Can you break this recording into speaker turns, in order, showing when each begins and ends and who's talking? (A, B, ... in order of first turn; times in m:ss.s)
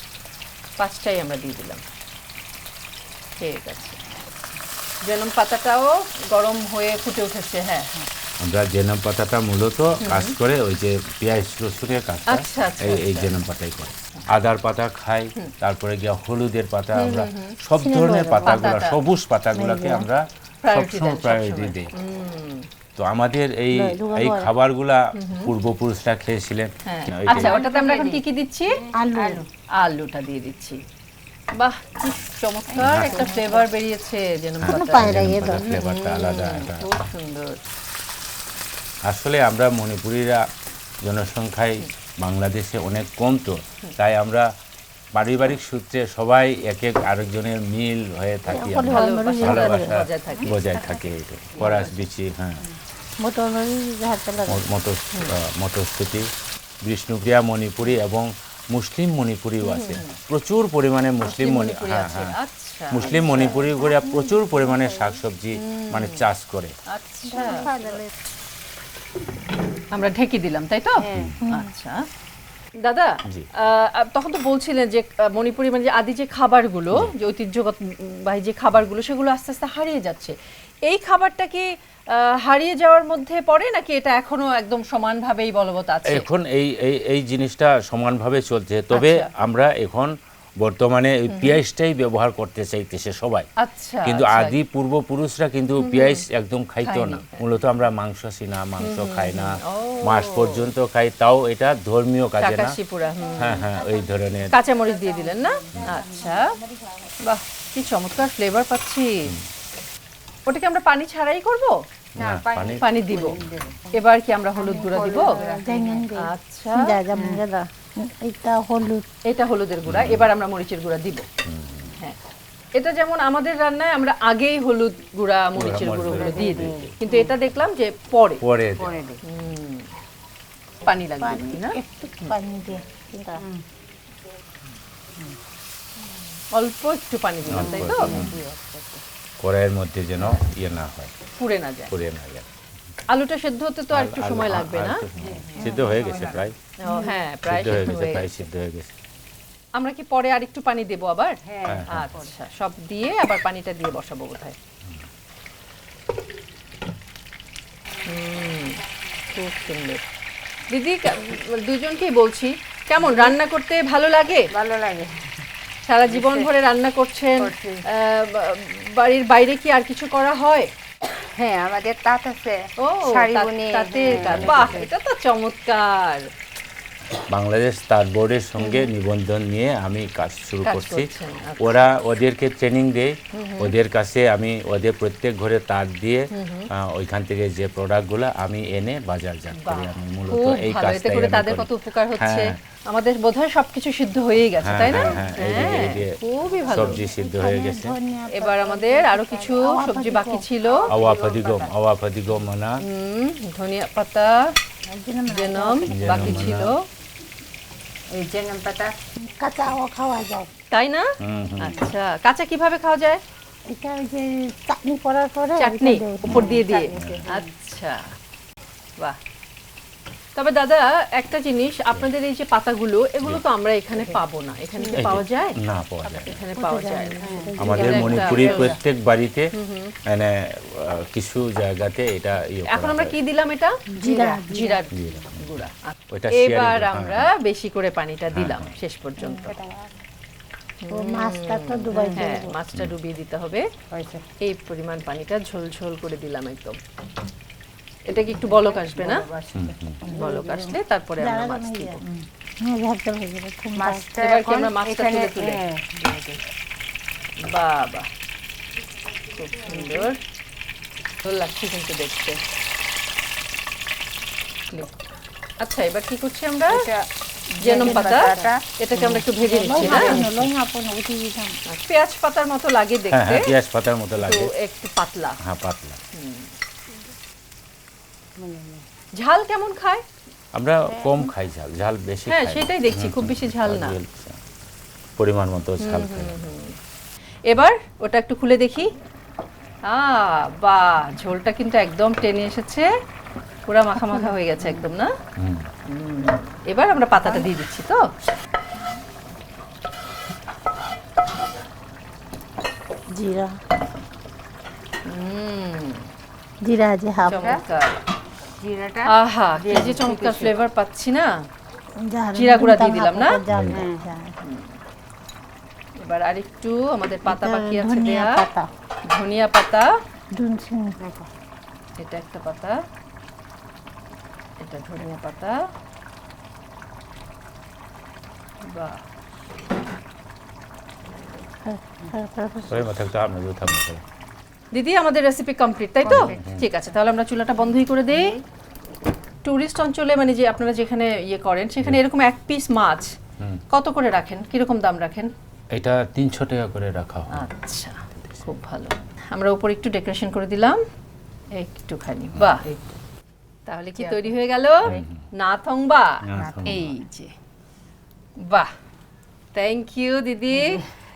0:00.8-0:01.8 A
0:03.4-0:04.0 A
0:05.0-0:07.9 A
0:08.4-0:21.9 B
0:10.0-0:10.4 A
0:12.3-0:13.3 A
0:16.9-0:19.0 A
0:17.8-0:18.6 C
0:19.5-0:20.1 C
0:20.6-0:22.7 A
0:23.0-0:27.6 B
0:23.7-0:24.5 C
0:25.1-0:25.5 A
0:26.8-0:28.8 A
0:27.3-0:29.4 D
0:28.9-0:29.4 C
0:29.8-0:30.8 A
0:31.5-0:37.6 A
0:32.8-0:33.3 B
0:32.8-0:33.6 D
0:34.6-0:37.0 B
0:34.6-0:35.7 C
0:39.0-0:40.4 B
0:41.0-0:44.5 B
0:45.1-0:52.6 B
0:48.5-0:49.9 C
0:48.9-0:50.7 A
0:50.4-0:51.0 D
0:51.6-0:52.0 A
0:53.2-0:54.6 C
0:54.5-0:56.3 B
0:56.8-1:02.4 B
0:59.6-1:00.2 A
1:01.2-1:03.7 A
1:02.9-1:06.7 B
1:03.0-1:05.1 D
1:05.6-1:06.2 A
1:06.9-1:07.7 A
1:07.3-1:08.1 D
1:09.9-1:12.0 A
1:11.0-1:11.4 D
1:11.4-1:11.7 C
1:12.8-1:26.2 A
1:26.1-1:33.5 B
1:28.9-1:29.3 A
1:31.3-1:31.6 A
1:33.6-1:34.6 A
1:34.0-1:42.7 B
1:35.8-1:36.2 A
1:36.8-1:37.4 A
1:38.8-1:40.6 A
1:42.4-1:43.6 A
1:43.3-1:43.5 D
1:43.4-1:44.5 B
1:44.5-1:46.5 A
1:44.8-1:46.3 D
1:47.2-1:49.3 A
1:50.5-1:51.8 A
1:52.2-1:53.7 B
1:52.2-1:54.0 D
1:52.8-1:53.4 A
1:53.9-1:55.4 A
1:54.6-1:56.1 D
1:54.8-1:59.0 C
1:56.2-1:57.0 A
1:57.2-1:57.4 D
1:59.2-2:01.2 A
1:59.9-2:00.3 B
2:01.4-2:01.9 B
2:02.7-2:08.4 A
2:05.6-2:06.9 B
2:06.1-2:07.3 D
2:08.4-2:08.9 B
2:08.8-2:09.2 D
2:09.2-2:09.9 A
2:10.8-2:12.3 A
2:11.2-2:13.4 C
2:16.5-2:18.2 A
2:17.5-2:18.4 B
2:17.5-2:19.0 D
2:19.4-2:21.1 B
2:21.4-2:21.9 A
2:21.9-2:22.5 B
2:23.1-2:25.0 A
2:23.9-2:26.5 B
2:25.2-2:27.1 D
2:26.8-2:28.4 A
2:27.5-2:28.9 B
2:29.8-2:31.4 A
2:31.4-2:32.3 D
2:31.7-2:32.1 B
2:31.9-2:34.6 A
2:38.0-2:38.8 A
2:39.3-2:40.0 A
2:40.7-2:44.5 A
2:43.0-2:43.4 D
2:44.5-2:45.3 D
2:45.9-2:50.7 A
2:46.1-2:46.5 D
2:47.4-2:47.8 D
2:51.2-2:54.9 D
2:52.8-2:56.3 A
2:54.0-2:54.8 B
2:57.3-3:01.1 B
3:00.6-3:01.8 A
3:01.6-3:12.6 B
3:03.3-3:03.7 A
3:06.3-3:06.7 A
3:09.5-3:17.0 A
3:14.6-3:16.2 B
3:14.9-3:15.9 D
3:16.5-3:17.0 D
3:16.7-3:18.0 B
3:17.0-3:20.4 C
3:18.3-3:20.9 A
3:20.6-3:21.7 D
3:20.9-3:22.8 B
3:22.8-3:24.5 A
3:24.9-3:26.5 C
3:25.3-3:26.8 A
3:25.9-3:26.7 B
3:28.1-3:28.9 D
3:29.4-3:30.5 C
3:30.7-3:33.2 A
3:31.2-3:31.8 B
3:33.7-3:36.6 C
3:35.6-3:38.1 A
3:36.3-3:37.5 D
3:36.9-3:37.2 B
3:40.4-3:48.8 A
3:43.9-3:44.2 D
3:44.8-3:45.2 D
3:45.0-3:46.4 B
3:46.5-3:48.6 C
3:47.2-3:47.8 D
3:47.6-3:49.5 B
3:49.5-3:49.9 A
3:50.0-3:53.1 B
3:52.7-3:53.7 A
3:53.9-3:54.8 C
3:54.0-3:54.5 D
3:54.5-3:59.6 A
3:54.9-3:57.3 B
3:58.3-3:58.7 B
3:59.4-3:59.9 D
4:00.8-4:03.7 A
4:00.9-4:02.6 C
4:01.9-4:02.3 D
4:03.9-4:04.2 D
4:04.4-4:06.8 A
4:08.1-4:09.2 A
4:08.2-4:09.8 D
4:09.5-4:10.0 B
4:10.0-4:14.1 C
4:10.1-4:12.0 A
4:13.8-4:16.4 D
4:14.2-4:15.6 A
4:17.4-4:18.1 A
4:19.4-4:20.2 A
4:19.6-4:20.1 D
4:21.2-4:22.4 A
4:24.7-4:25.0 A
4:25.6-4:26.8 A
4:26.7-4:27.0 D
4:27.6-4:30.2 A
4:27.6-4:30.5 D
4:27.7-4:28.5 C
4:29.6-4:31.6 C
4:31.7-4:33.5 A
4:33.1-4:34.5 B
4:34.2-4:35.4 A
4:35.4-4:36.0 B
4:36.1-4:36.5 A
4:38.4-4:38.8 D
4:39.2-4:40.0 A
4:40.5-4:44.4 B
4:42.3-4:44.0 A
4:45.2-4:46.4 B
4:45.8-4:46.8 A
4:47.5-4:48.9 A
4:49.9-4:52.9 A
4:53.7-4:55.1 A
4:55.4-4:55.7 B
4:55.8-4:58.1 A
5:03.1-5:03.6 C
5:05.0-5:06.1 A
5:06.6-5:07.6 C
5:07.2-5:07.9 A
5:07.3-5:07.6 D
5:08.6-5:10.6 D
5:09.1-5:11.4 A
5:12.0-5:14.4 C
5:12.4-5:13.4 A
5:13.5-5:13.8 B
5:13.7-5:14.0 D
5:14.4-5:14.8 A
5:16.0-5:18.4 A
5:17.2-5:18.7 C
5:19.0-5:19.9 A
5:20.3-5:21.0 C
5:21.0-5:21.3 D
5:22.0-5:22.8 A
5:24.6-5:25.7 A
5:28.6-5:29.0 A
5:31.6-5:33.0 C
5:32.7-5:34.0 B
5:34.7-5:38.4 A
5:36.0-5:36.6 D
5:36.1-5:36.6 B
5:38.1-5:38.4 D
5:39.4-5:43.2 A
5:43.7-5:45.3 A
5:45.7-5:47.5 B
5:47.3-5:50.8 A
5:51.6-5:52.6 A
5:53.7-5:57.3 A
5:54.0-5:54.3 D
5:54.8-5:55.2 B
5:56.3-5:56.8 B
5:56.3-5:57.1 D
5:58.4-5:58.7 A
5:59.5-6:00.8 A